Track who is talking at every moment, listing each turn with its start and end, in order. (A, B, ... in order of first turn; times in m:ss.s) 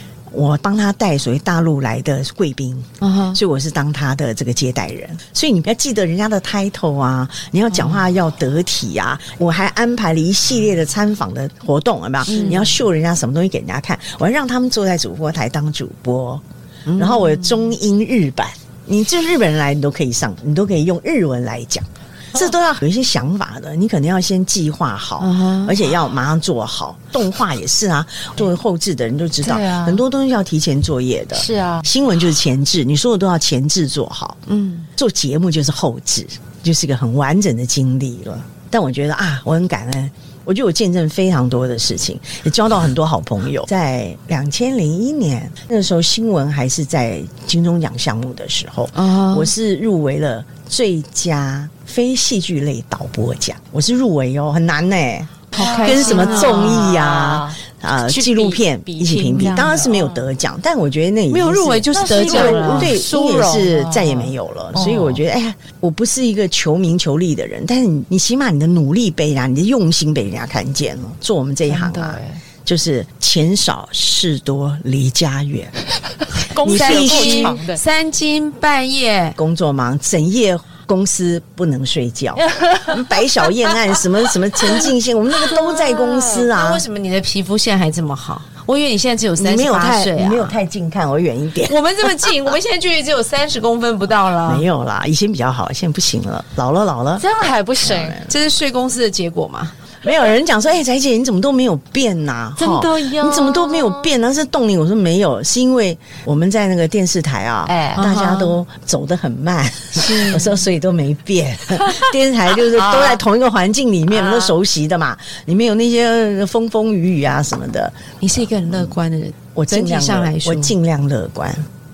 0:00.3-0:34.4 A
0:03.0-0:03.4 B
0:12.3-0:12.8 B
0:16.9-0:17.4 B
0:25.2-0:25.8 B
0:29.4-0:30.0 C
0:31.4-0:31.9 C
0:34.5-0:34.9 B
0:35.0-1:15.7 A
0:49.0-0:49.5 B
0:55.5-0:56.9 B
0:55.6-1:00.3 C
1:01.3-1:02.9 B
1:01.9-1:05.2 C
1:11.7-1:12.4 C
1:16.5-1:17.8 C
1:16.6-1:17.6 A
1:16.6-1:19.4 B
1:19.4-1:26.8 A
1:22.4-1:23.1 C
1:25.4-1:26.5 C
1:26.4-1:30.6 B
1:29.4-1:31.8 A
1:31.6-1:34.6 B
1:34.4-1:37.3 A
1:37.2-1:38.2 C
1:37.8-1:38.3 A
1:38.3-1:39.8 B
1:40.0-1:58.0 A
1:42.6-1:44.1 C
1:47.7-1:48.1 C
1:48.0-1:48.6 B
1:50.0-1:50.6 B
1:52.7-1:53.2 C
1:54.1-1:54.5 C
1:58.2-2:00.8 B
1:59.6-2:01.6 A